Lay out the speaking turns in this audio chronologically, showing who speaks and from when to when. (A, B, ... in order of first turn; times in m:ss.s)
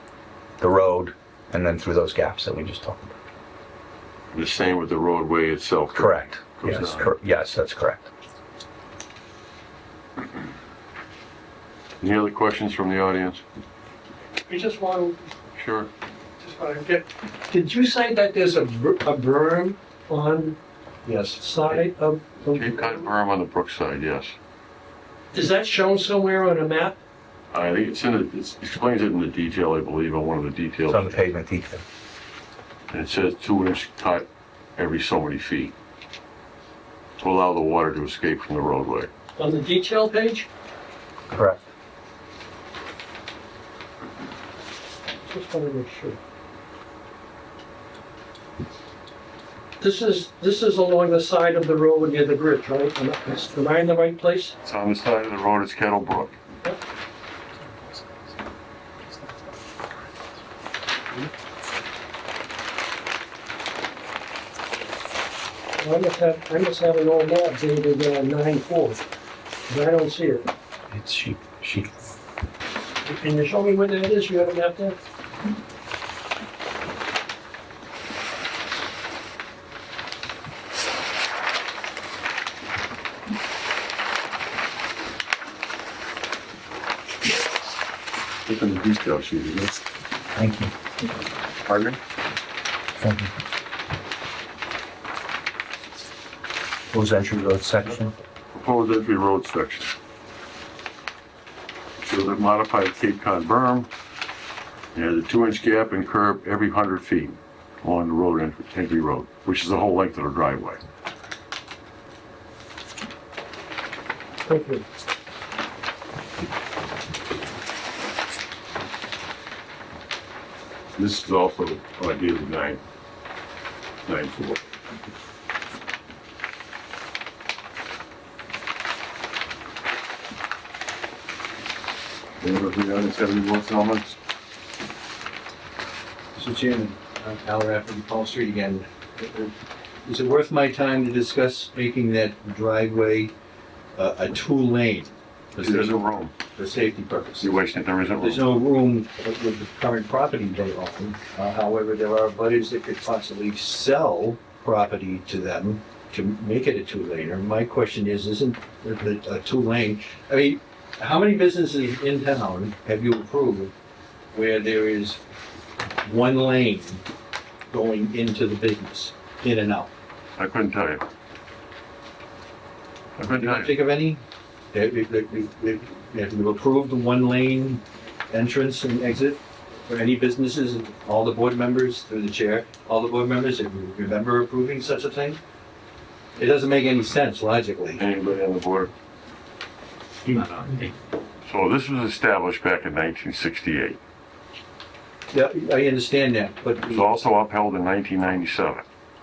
0:00.6-0:03.1 A
0:04.3-0:07.1 B
0:05.9-0:08.1 A
0:12.0-0:13.4 B
0:14.5-0:15.3 C
0:15.6-0:15.9 B
0:16.4-0:20.6 C
0:21.0-0:21.9 D
0:21.4-0:23.0 C
0:22.5-0:24.4 B
0:25.3-0:27.0 C
0:27.5-0:31.2 B
0:30.9-0:31.8 A
0:32.9-0:35.7 B
0:37.2-0:39.1 B
0:39.4-0:40.5 C
0:41.3-0:41.6 A
0:45.3-0:46.2 C
0:49.8-0:54.6 C
0:54.6-0:56.4 B
1:05.8-1:09.0 C
1:09.7-1:10.5 C
1:10.9-1:12.1 A
1:13.0-1:15.0 C
1:28.5-1:29.8 B
1:30.4-1:30.7 A
1:31.7-1:32.0 B
1:33.0-1:33.3 A
1:36.9-1:38.1 A
1:38.5-1:39.9 B
1:42.0-1:43.9 B
1:45.0-1:50.8 B
1:54.5-1:54.8 C
2:01.0-2:02.8 B
2:04.1-2:04.6 B
2:12.4-2:14.2 B
2:16.4-2:19.5 D
2:20.0-2:23.3 D
2:24.0-2:27.6 D
2:25.6-2:26.3 B
2:27.4-2:28.4 B
2:28.2-2:43.7 D
2:44.3-2:45.2 D
2:46.0-2:47.0 D
2:47.7-2:49.9 D
2:50.4-2:51.0 B
2:53.2-2:53.8 B
2:53.2-3:05.4 D
3:06.4-3:08.0 D
3:08.0-3:08.9 B
3:11.5-3:14.0 B
3:15.3-3:17.1 D
3:16.9-3:18.8 B